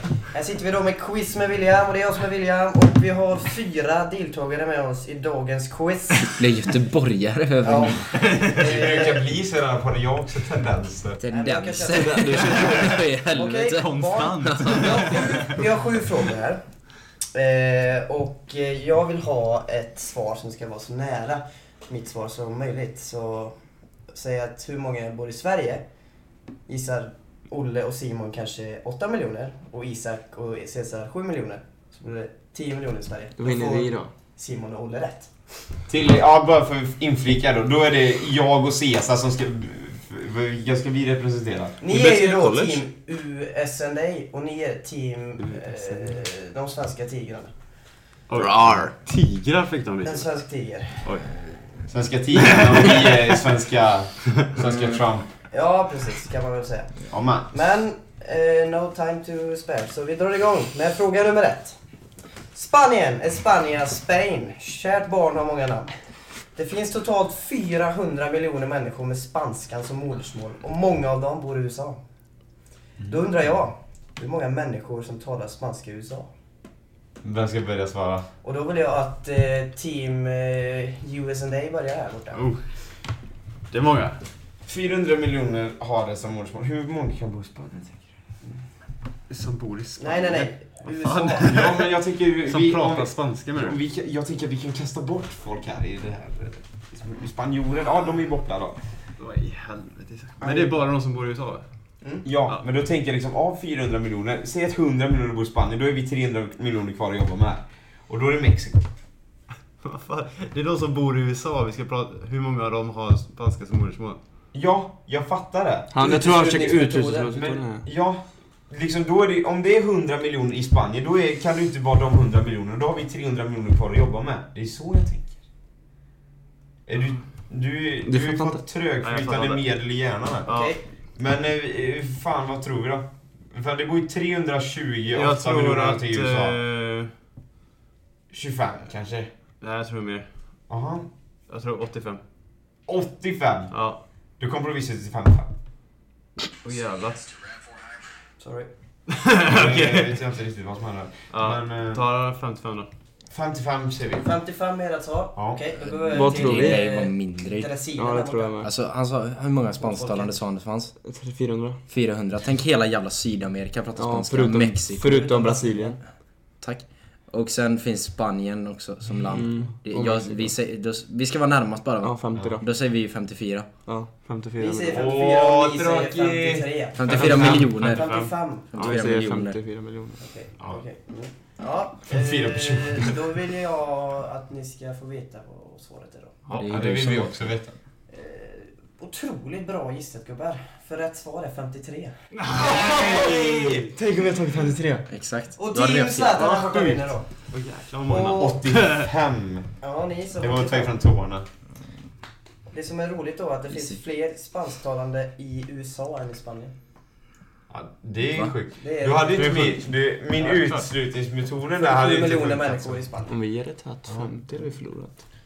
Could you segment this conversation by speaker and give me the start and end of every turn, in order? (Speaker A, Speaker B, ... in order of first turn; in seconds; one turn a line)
Speaker A: 0.3-6.4
Speaker B: 6.4-8.2
Speaker A: 7.6-9.3
Speaker C: 8.2-8.6
Speaker D: 8.6-11.2
Speaker B: 11.2-15.2
Speaker A: 11.3-16.6
Speaker E: 12.1-12.6
Speaker C: 12.2-13.0
Speaker C: 13.7-15.6
Speaker A: 17.3-23.6
Speaker A: 24.1-25.9
Speaker A: 26.7-35.3
Speaker E: 33.4-34.1
Speaker D: 35.9-41.8
Speaker A: 41.8-47.5
Speaker C: 41.9-42.8
Speaker C: 45.4-46.1
Speaker C: 48.3-50.3
Speaker A: 50.0-51.2
Speaker D: 51.9-55.3
Speaker C: 52.4-53.3
Speaker A: 55.5-57.0
Speaker D: 57.1-57.5
Speaker A: 57.5-61.8
Speaker A: 62.5-65.9
Speaker A: 66.5-72.0
Speaker A: 73.1-76.3
Speaker D: 77.2-78.3
Speaker A: 78.4-82.5
Speaker C: 82.3-82.6
Speaker C: 83.7-84.2
Speaker D: 84.7-88.0
Speaker C: 89.3-93.8
Speaker A: 90.0-91.6
Speaker D: 91.4-98.8
Speaker C: 99.2-101.6
Speaker D: 100.4-100.8
Speaker D: 102.2-108.9
Speaker C: 109.8-114.2
Speaker D: 114.5-115.9
Speaker E: 115.9-117.8
Speaker A: 116.0-117.4
Speaker D: 117.3-125.3
Speaker D: 126.9-130.5
Speaker E: 128.1-128.6
Speaker C: 129.0-129.6
Speaker C: 130.4-130.7
Speaker A: 130.5-130.8
Speaker D: 131.2-136.6
Speaker C: 135.1-137.1
Speaker D: 138.3-139.3
Speaker C: 139.6-140.3
Speaker D: 140.7-141.1
Speaker C: 141.5-142.2
Speaker D: 142.9-143.8
Speaker C: 143.7-144.0
Speaker D: 144.4-145.5
Speaker C: 146.6-147.4
Speaker A: 148.4-148.7
Speaker C: 149.1-150.1
Speaker D: 149.4-152.0
Speaker C: 151.3-152.9
Speaker D: 153.3-154.3
Speaker A: 154.2-158.6
Speaker B: 155.8-157.7
Speaker E: 156.1-156.8
Speaker E: 158.0-158.7
Speaker B: 158.6-160.9
Speaker A: 159.8-160.4
Speaker E: 161.0-161.8
Speaker B: 161.9-165.1
Speaker E: 164.0-166.0
Speaker A: 165.0-166.0
Speaker B: 166.6-173.7
Speaker E: 169.3-170.5
Speaker E: 172.0-172.7
Speaker E: 173.9-175.0
Speaker A: 174.6-178.7
Speaker D: 174.9-177.7
Speaker B: 176.9-178.1
Speaker C: 177.1-178.3
Speaker B: 178.7-179.6
Speaker E: 178.8-180.2
Speaker A: 180.2-186.4
Speaker D: 182.1-183.3
Speaker D: 186.5-187.8
Speaker C: 186.5-186.8
Speaker B: 186.5-187.5
Speaker A: 188.1-192.2
Speaker C: 192.3-193.9
Speaker E: 192.8-195.1
Speaker B: 195.1-196.5
Speaker A: 195.6-197.3
Speaker C: 196.3-199.1
Speaker A: 198.1-198.6
Speaker D: 198.4-199.7
Speaker A: 199.8-200.9
Speaker D: 200.4-201.4
Speaker A: 202.7-206.7
Speaker B: 203.7-204.0
Speaker D: 207.7-213.0
Speaker A: 208.8-209.7
Speaker C: 209.4-209.8
Speaker C: 210.4-210.9
Speaker A: 211.8-213.3
Speaker E: 213.3-215.2